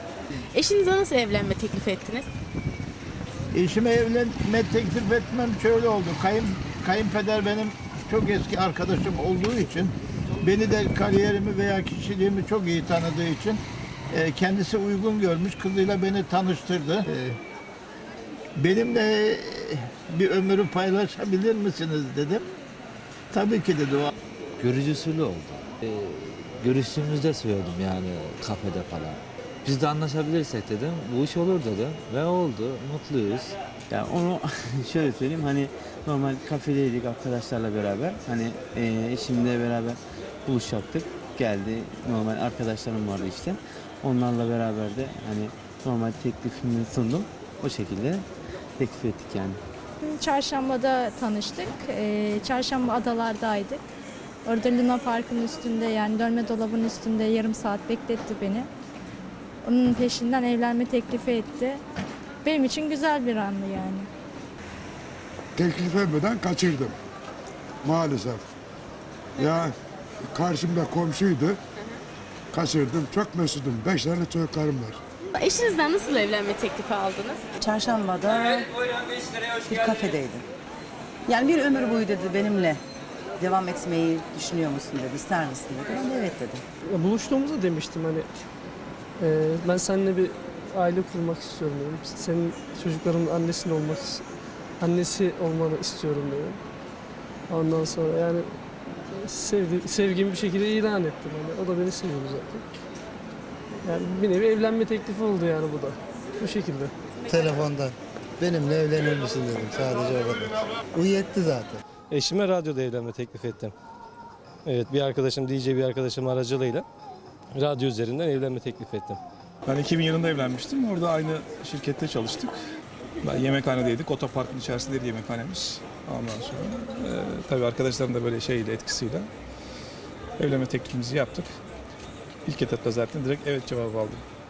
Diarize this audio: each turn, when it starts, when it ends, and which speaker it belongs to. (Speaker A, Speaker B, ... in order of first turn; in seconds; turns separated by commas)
Speaker A: 0.5-2.3, Speaker B: 3.5-13.6, Speaker B: 14.1-17.4, Speaker B: 18.6-22.5, Speaker B: 23.3-24.1, Speaker C: 24.6-33.5, Speaker D: 33.9-48.2, Speaker D: 48.8-49.6, Speaker E: 50.0-53.8, Speaker E: 54.5-58.7, Speaker E: 59.6-61.8, Speaker E: 62.4-64.1, Speaker F: 65.6-67.0, Speaker F: 67.8-68.4, Speaker F: 69.4-69.7, Speaker F: 70.2-71.6, Speaker F: 72.5-75.0, Speaker A: 75.3-77.5, Speaker G: 77.6-80.5, Speaker G: 81.3-82.8, Speaker G: 83.4-86.6, Speaker H: 86.9-88.3, Speaker H: 89.2-94.3, Speaker H: 94.8-96.6, Speaker H: 97.5-98.5, Speaker H: 99.2-102.7, Speaker H: 103.8-106.9, Speaker I: 107.3-111.8, Speaker J: 112.1-113.7, Speaker J: 114.7-116.8, Speaker J: 117.6-119.2, Speaker K: 119.7-122.5, Speaker K: 123.2-129.3, Speaker K: 130.4-131.5, Speaker K: 132.5-134.2